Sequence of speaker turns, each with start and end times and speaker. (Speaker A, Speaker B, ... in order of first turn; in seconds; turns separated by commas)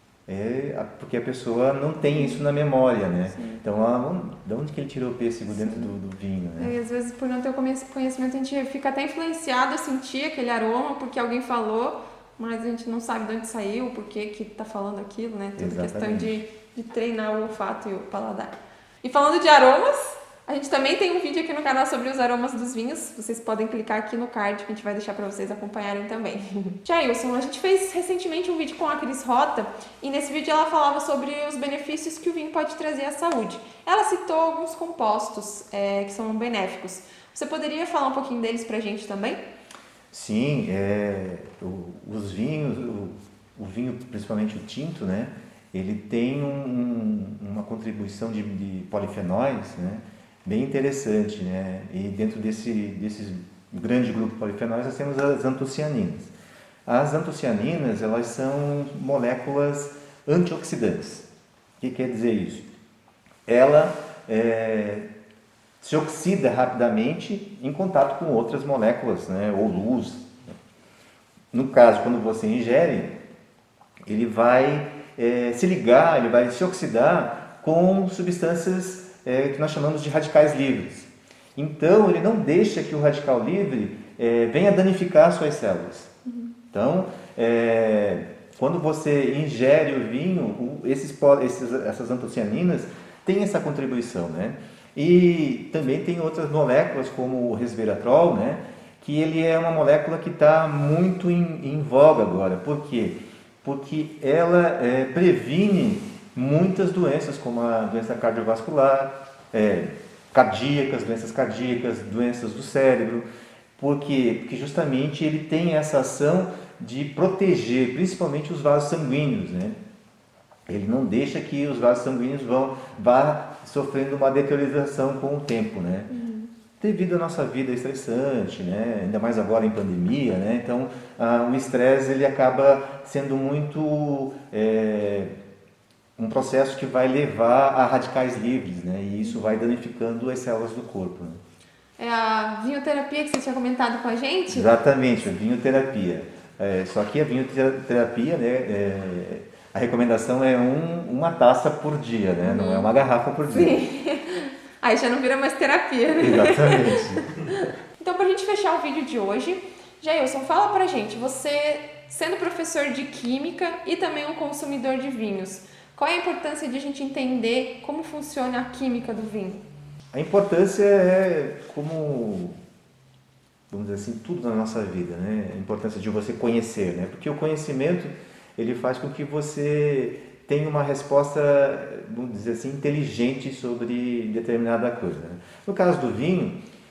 Speaker A: 0.3-6.7, Speaker B: 2.1-2.4, Speaker B: 3.3-3.6, Speaker B: 5.6-5.9, Speaker B: 6.6-39.4, Speaker A: 15.6-16.4, Speaker A: 40.1-56.3, Speaker A: 56.9-61.3, Speaker A: 61.8-62.7, Speaker A: 63.5-65.0, Speaker A: 65.8-70.3, Speaker A: 71.5-73.2, Speaker A: 74.1-86.1, Speaker B: 86.3-86.5, Speaker A: 86.7-113.2, Speaker A: 113.8-119.8, Speaker A: 120.7-126.1, Speaker B: 126.1-126.5, Speaker A: 126.8-135.3, Speaker A: 136.2-141.4, Speaker B: 139.2-139.6, Speaker B: 142.0-144.7, Speaker A: 144.5-153.8, Speaker B: 152.4-152.9, Speaker B: 153.5-169.6, Speaker A: 156.1-157.2, Speaker A: 170.1-172.6, Speaker A: 173.7-186.6